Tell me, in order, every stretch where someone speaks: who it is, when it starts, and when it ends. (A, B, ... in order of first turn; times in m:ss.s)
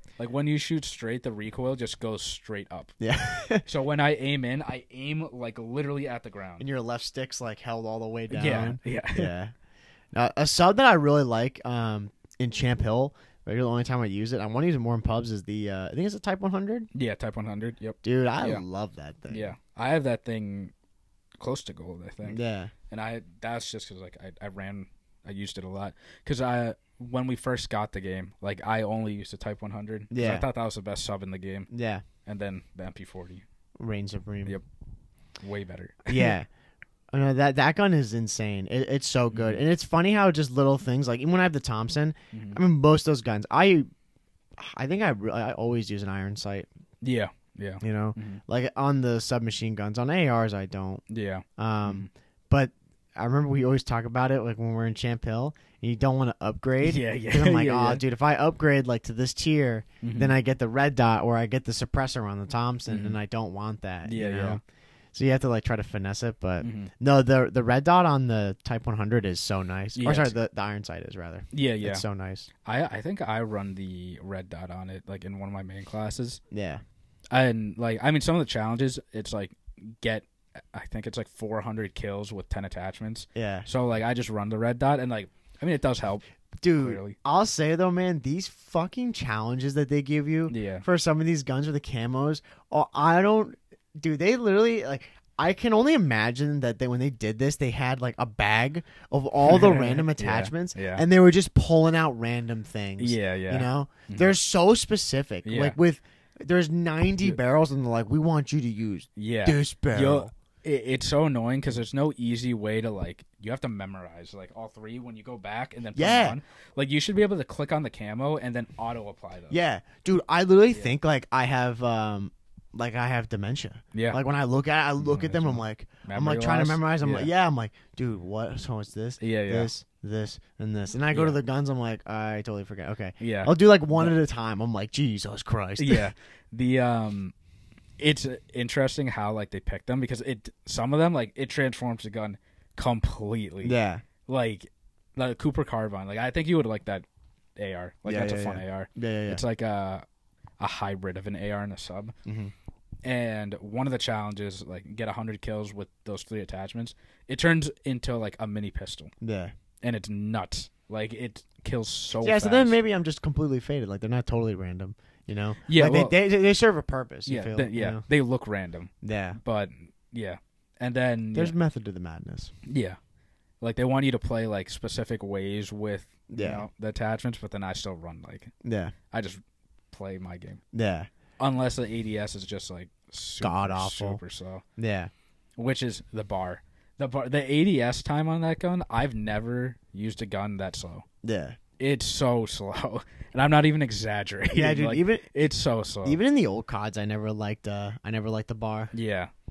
0:00.2-0:02.9 A
0:03.0-0:03.6 B
0:03.6-0:06.7 A
0:06.6-0:09.5 B
0:08.3-0:09.3 A
0:10.1-0:16.9 B
0:16.9-0:18.6 A
0:18.0-0:19.5 B
0:19.3-0:20.7 A
0:21.4-0:31.7 A
0:22.2-0:22.7 B
0:30.1-0:30.4 B
0:31.7-0:32.0 B
0:32.2-0:33.4 A
0:33.8-0:34.6 B
0:35.4-0:36.3 A
0:36.1-0:36.5 B
0:37.1-0:43.8 B
0:39.3-0:39.6 A
0:42.3-0:42.6 A
0:44.6-0:46.7 B
0:47.0-0:48.4 A
0:47.8-0:51.0 B
0:51.1-0:52.1 A
0:51.6-1:04.6 B
0:56.8-0:58.0 A
1:00.0-1:00.3 A
1:02.9-1:03.2 A
1:04.0-1:04.6 A
1:05.1-1:12.5 B
1:06.6-1:06.9 A
1:10.0-1:10.3 A
1:11.5-1:12.0 A
1:12.6-1:16.4 A
1:16.5-1:16.8 B
1:17.3-1:26.2 A
1:23.3-1:23.7 B
1:26.6-1:50.3 B
1:26.8-1:27.2 A
1:30.5-1:30.8 A
1:39.4-1:41.0 A
1:43.0-1:44.3 A
1:45.4-1:45.8 A
1:49.2-1:59.6 A
1:56.0-1:56.4 B
1:59.5-2:16.0 B
2:03.9-2:04.2 A
2:05.0-2:07.3 A
2:09.2-2:09.7 A
2:11.1-2:11.4 A
2:13.2-2:14.2 A
2:15.8-2:17.3 A
2:18.0-2:27.0 A
2:23.6-2:24.0 B
2:27.6-2:30.0 A
2:28.0-2:29.4 B
2:30.6-2:32.1 A
2:32.2-2:32.5 B
2:33.0-2:39.1 A
2:39.2-2:39.5 B
2:39.8-2:42.8 A
2:42.2-2:48.0 B
2:45.6-2:46.1 A
2:47.2-2:51.5 A
2:49.0-2:49.4 B
2:51.3-2:52.5 B
2:52.6-2:53.0 A
2:53.6-2:58.5 A
2:56.3-2:56.6 B
2:58.6-2:58.9 B
2:59.1-3:00.6 A
3:00.7-3:01.1 B
3:01.4-3:04.6 A
3:03.4-3:04.2 B
3:04.8-3:05.1 B
3:05.6-3:11.0 A
3:11.2-3:11.6 B
3:11.8-3:16.2 A
3:14.5-3:15.3 B
3:16.0-3:18.9 B
3:18.9-3:19.3 A